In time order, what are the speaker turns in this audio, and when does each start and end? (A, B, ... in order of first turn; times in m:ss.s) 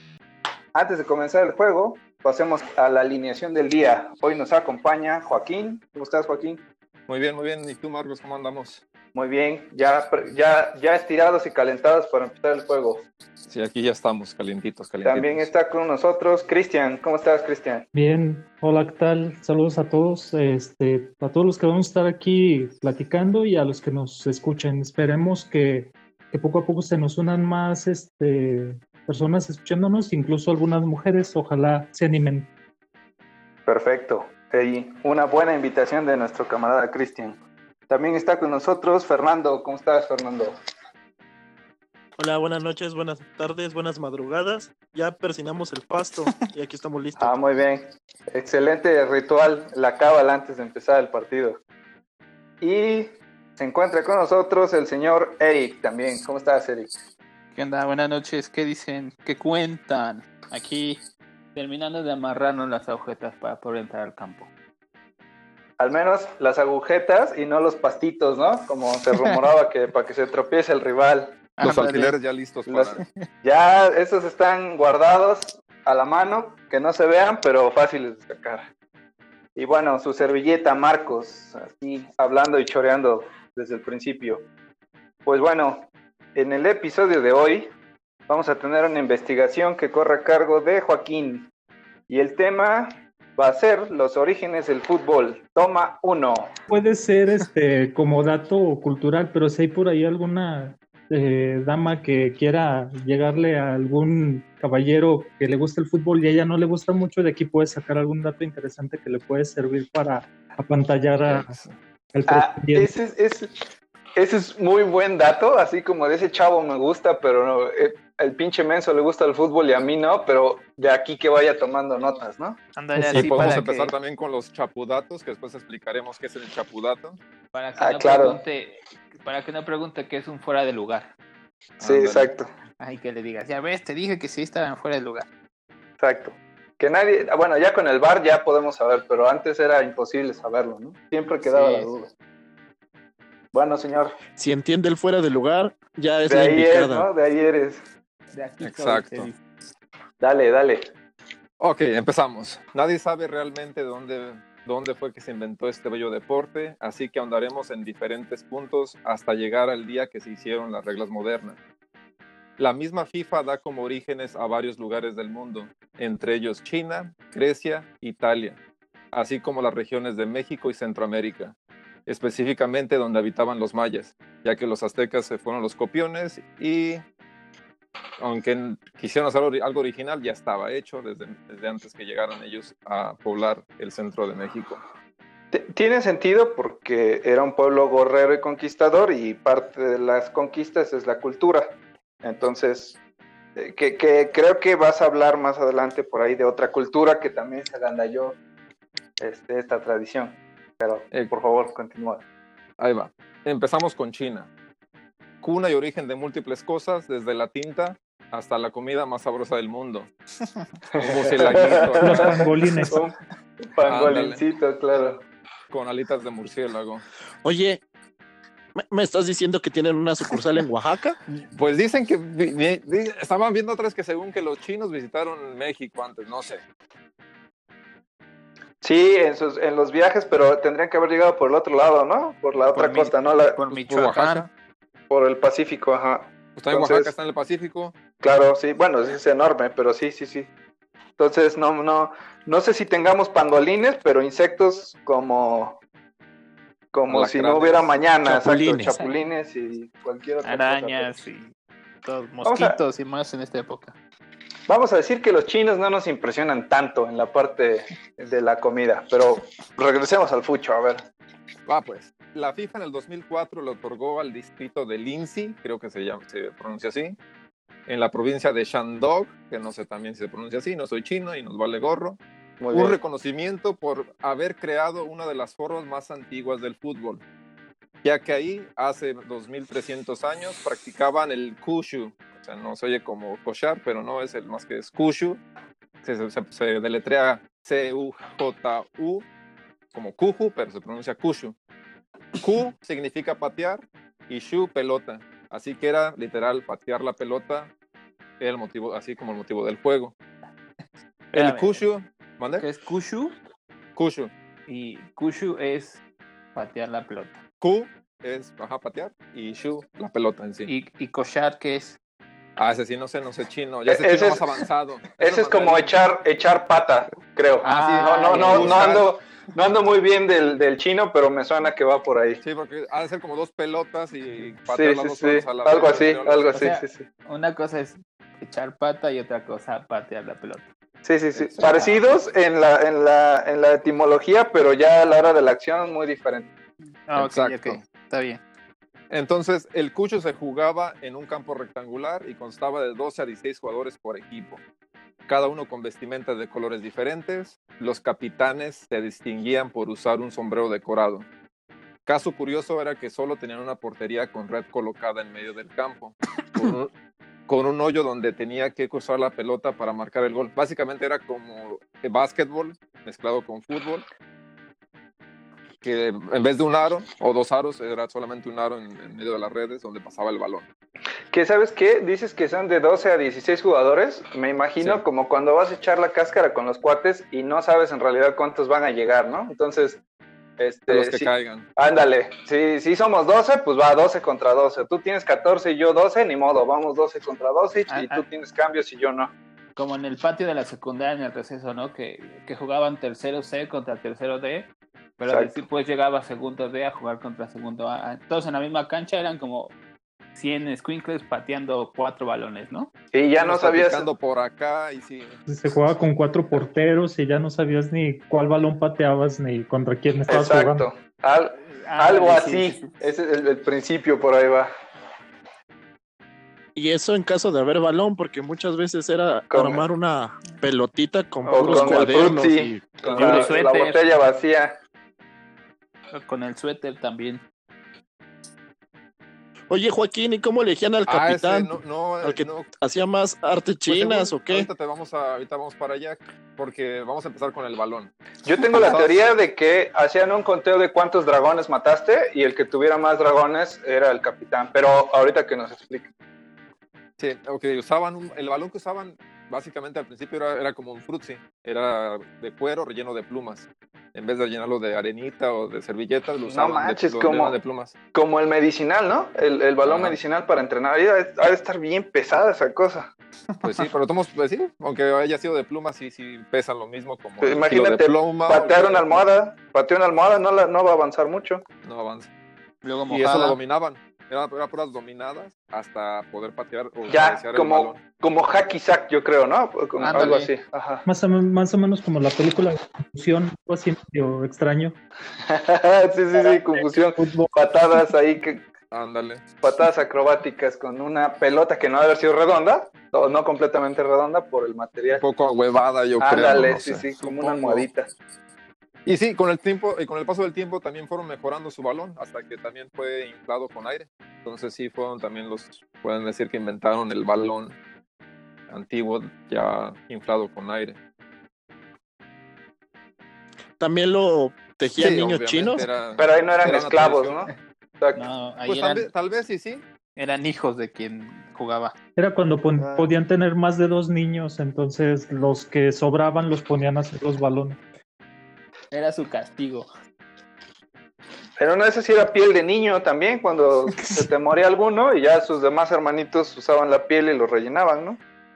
0:00.7-0:06.6 A
0:07.1-0:08.8 B
0:09.2-0:13.1 A
0:13.5-0:15.5 B
0:15.0-0:17.9 A
0:17.9-0:32.5 C
0:33.7-0:40.6 A
0:42.2-0:47.4 D
0:47.2-0:51.6 A
0:52.6-0:56.9 A
0:57.6-1:01.0 E
1:01.6-1:04.5 E
1:05.8-1:11.4 A
1:09.2-1:09.4 E
1:11.6-1:12.2 E
1:11.6-1:13.0 B
1:12.7-1:18.6 A
1:19.6-1:24.4 A
1:25.3-1:27.7 A
1:28.3-1:31.5 A
1:32.1-1:36.5 A
1:36.7-1:51.6 C
1:51.2-1:51.8 B
1:52.1-1:52.9 C
1:52.3-1:53.6 A
1:54.2-2:02.6 A
2:02.8-2:03.9 E
2:03.0-2:07.2 B
2:07.5-2:11.1 E
2:07.8-2:08.4 A
2:11.8-2:12.3 B
2:11.8-2:12.5 A
2:12.8-2:15.3 E
2:16.0-2:22.1 A
2:21.5-2:21.9 E
2:23.5-2:24.1 A
2:24.4-2:27.1 D
2:26.2-2:27.8 A
2:28.3-2:29.4 E
2:28.6-2:29.3 B
2:30.2-2:30.9 A
2:31.6-2:41.6 B
2:42.6-2:48.6 B
2:49.1-2:51.6 B
2:52.1-2:57.0 B
2:58.2-3:04.8 B
3:05.5-3:13.0 A
3:13.6-3:18.4 A
3:19.2-3:22.2 A
3:22.8-3:24.5 B
3:25.4-3:30.1 B
3:30.9-3:35.2 A
3:31.0-3:32.4 B
3:32.0-3:33.0 C
3:33.8-3:34.4 B
3:35.7-3:37.0 B
3:37.4-3:37.8 D
3:38.8-3:41.2 D
3:41.5-3:46.6 B
3:48.8-3:53.6 A
3:52.7-3:54.5 E
3:53.7-3:54.5 B
3:55.1-3:57.1 A
3:56.6-3:58.0 B
3:58.2-4:00.5 A
4:01.2-4:05.8 A
4:06.9-4:11.1 A
4:07.1-4:07.9 B
4:08.2-4:09.0 D
4:08.9-4:09.2 E
4:10.4-4:11.5 E
4:12.0-4:14.0 E
4:12.4-4:12.8 A
4:14.7-4:21.0 A
4:21.7-4:27.2 B
4:27.9-4:32.2 B
4:32.6-4:33.0 A
4:32.7-4:37.2 B
4:38.0-4:45.4 B
4:46.0-4:49.2 B
4:49.9-4:51.6 B
4:52.4-4:57.7 B
4:58.4-5:00.2 B
5:01.3-5:01.8 E
5:01.3-5:02.7 B
5:02.6-5:03.4 E
5:04.0-5:04.3 B
5:04.7-5:06.0 E
5:06.6-5:07.4 E
5:07.6-5:10.7 B
5:10.7-5:12.0 E
5:12.6-5:16.0 B
5:13.9-5:14.6 A
5:15.2-5:22.4 A
5:17.6-5:19.0 E
5:17.7-5:19.1 B
5:22.4-5:26.5 B
5:24.7-5:27.0 A
5:26.5-5:30.7 E
5:31.0-5:36.5 A
5:31.4-5:32.1 E
5:37.1-5:38.4 E
5:37.2-5:37.8 B
5:39.1-5:44.6 B
5:45.3-5:51.3 B
5:52.1-5:56.9 B
5:57.5-6:04.1 B
6:05.8-6:10.7 B
6:11.3-6:20.0 A
6:20.6-6:29.3 A
6:20.9-6:21.7 B
6:27.9-6:28.2 E
6:29.8-6:39.7 E
6:35.3-6:35.6 A
6:40.4-6:42.9 E
6:43.1-6:44.1 A
6:43.4-6:45.4 B
6:45.5-6:50.9 C
6:50.3-6:54.7 A
6:51.8-6:52.9 E
6:56.8-7:02.8 D
6:59.5-6:59.8 A
7:01.4-7:04.8 A
7:01.6-7:02.1 E
7:02.0-7:02.4 B
7:03.0-7:03.6 B
7:03.1-7:04.0 E
7:06.1-7:07.4 E
7:09.7-7:14.7 D
7:11.1-7:12.7 B
7:13.9-7:18.1 B
7:18.4-7:26.1 A
7:18.7-7:19.3 B
7:27.2-7:37.9 B
7:36.5-7:37.6 A
7:38.1-7:43.1 A
7:39.8-7:40.2 B
7:43.6-7:49.2 B
7:47.4-7:51.6 A
7:51.8-7:52.3 B
7:52.8-7:53.6 E
7:53.1-7:58.0 B
7:57.1-8:01.1 A
8:00.0-8:00.5 E
8:00.1-8:00.4 B
8:01.0-8:05.0 C
8:05.4-8:08.7 A
8:07.2-8:07.5 C
8:08.9-8:09.4 B
8:09.6-8:15.2 A
8:15.2-8:17.9 B
8:16.2-8:18.1 A
8:17.2-8:17.8 E
8:19.1-8:27.8 B
8:28.7-8:31.0 B
8:33.8-8:35.9 D
8:35.0-8:37.4 B
8:36.2-8:38.2 A
8:38.1-8:39.1 E
8:38.7-8:39.8 B
8:40.2-8:42.0 E
8:42.2-8:47.8 C
8:42.8-8:43.1 A
8:48.9-8:49.9 E
8:51.6-8:58.2 A